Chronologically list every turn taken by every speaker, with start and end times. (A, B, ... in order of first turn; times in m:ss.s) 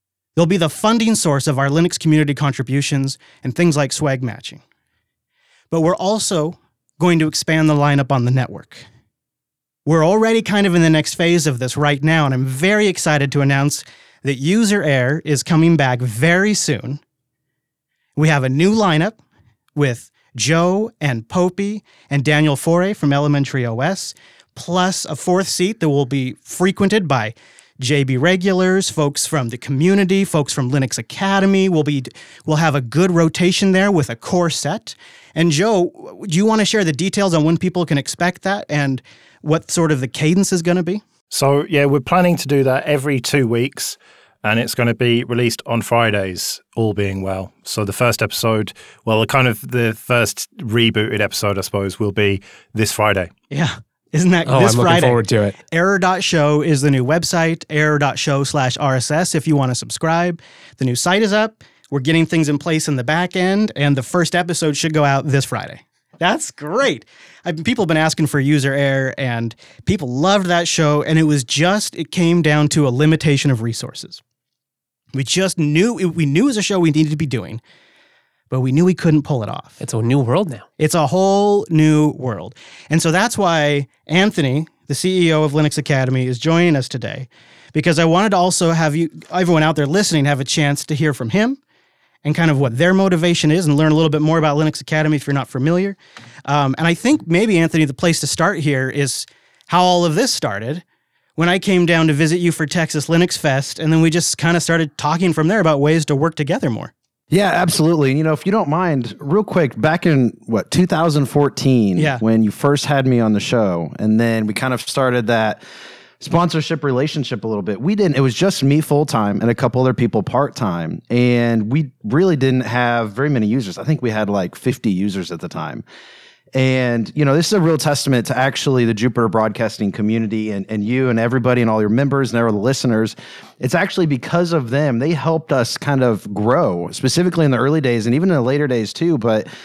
0:00.4-0:04.6 A
0:05.7-0:08.9 A
0:09.9-0:17.0 A
0:18.2-0:19.2 A
0:19.8-0:41.0 A
0:41.3-0:53.3 B
0:53.5-1:14.2 A
0:54.5-0:55.6 C
1:15.1-1:17.6 A
1:18.5-1:19.8 A
1:19.8-1:20.7 C
1:20.8-1:31.6 A
1:32.2-1:40.8 A
1:41.4-1:46.9 A
1:47.3-1:55.6 D
1:52.0-1:52.2 A
1:56.2-2:05.8 D
2:06.5-2:19.5 D